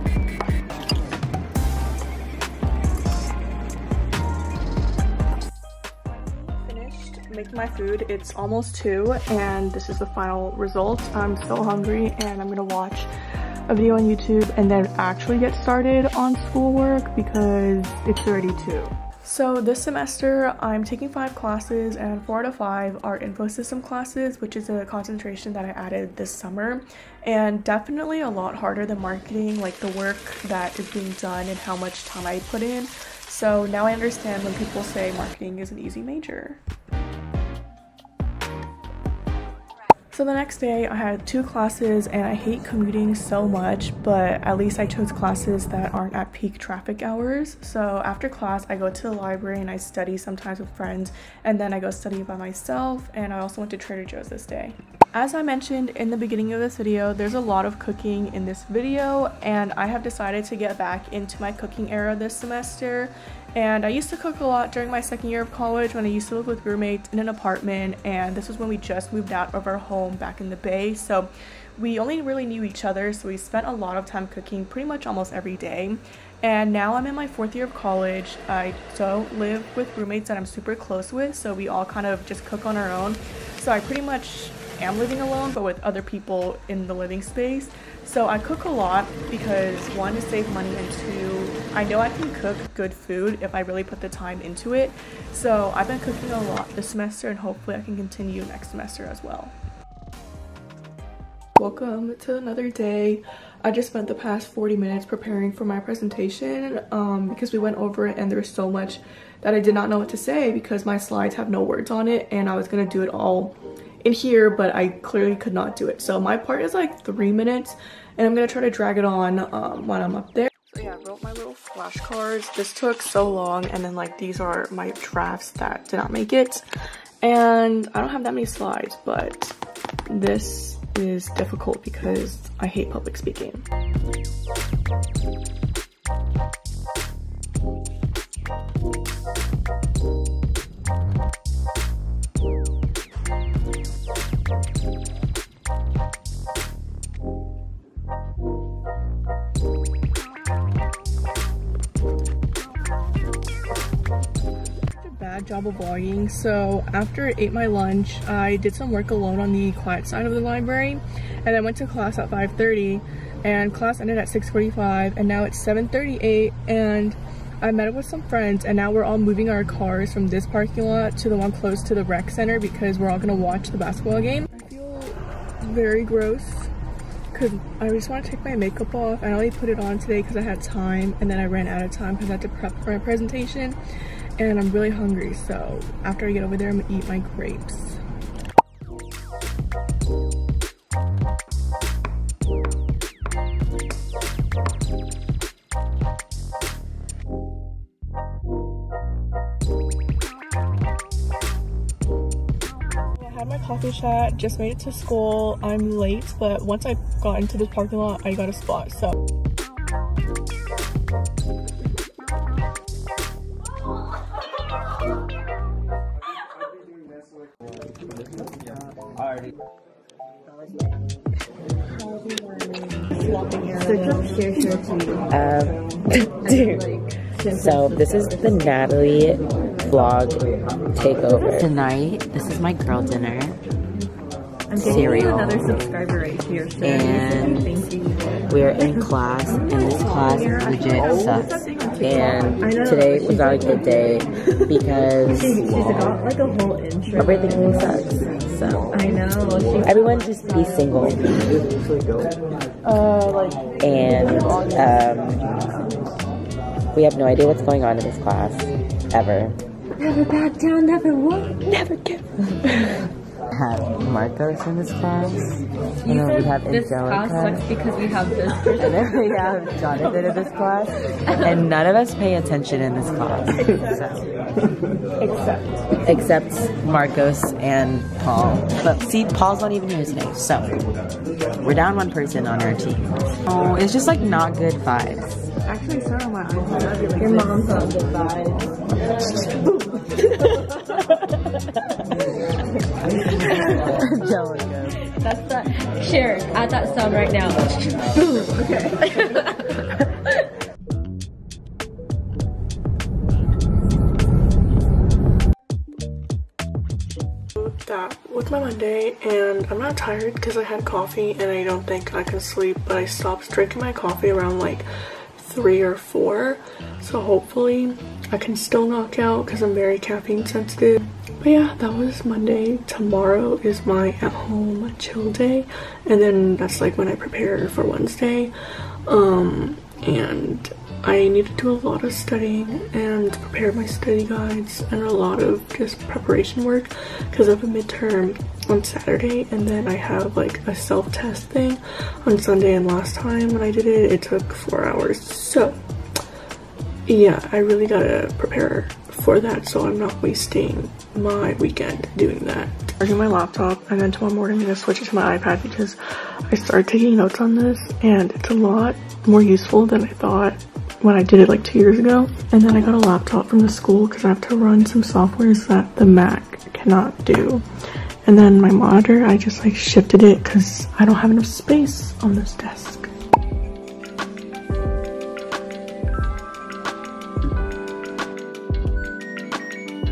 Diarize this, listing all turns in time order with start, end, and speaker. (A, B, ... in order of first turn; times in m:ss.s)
0:06.1-0:13.1 A
0:13.7-0:36.6 A
0:40.1-1:39.5 A
1:41.6-2:06.6 A
2:07.2-2:09.6 A
2:10.1-2:13.6 A
2:34.9-2:56.7 A
2:57.3-3:03.8 A
3:04.4-3:08.0 A
3:23.1-3:29.2 A
3:42.2-3:42.8 B
3:43.1-3:44.7 A
3:43.8-3:45.3 B
3:45.3-3:53.6 C
3:54.7-4:01.6 B
3:54.8-3:55.6 C
3:56.8-3:57.8 C
3:58.5-4:01.5 C
4:00.8-4:02.7 A
4:02.0-4:05.6 C
4:02.6-4:04.7 B
4:05.3-4:07.9 B
4:07.2-4:08.9 C
4:08.9-4:10.4 B
4:09.8-4:11.3 C
4:12.8-4:13.6 A
4:13.8-4:15.4 C
4:16.9-4:19.6 C
4:20.0-4:21.6 B
4:21.6-4:23.0 A
4:23.5-4:27.7 C
4:26.0-4:29.2 B
4:28.7-4:34.2 C
4:35.2-4:35.9 A
4:36.0-4:40.8 C
4:41.6-4:45.5 C
4:45.6-4:48.0 A
4:47.2-4:48.7 B
4:53.4-4:54.0 B
4:53.7-4:55.0 C
4:55.2-4:59.9 B
5:07.6-5:28.5 A
5:29.0-5:45.8 A
5:47.1-5:56.0 A
5:56.5-6:07.6 A
6:08.2-6:13.1 A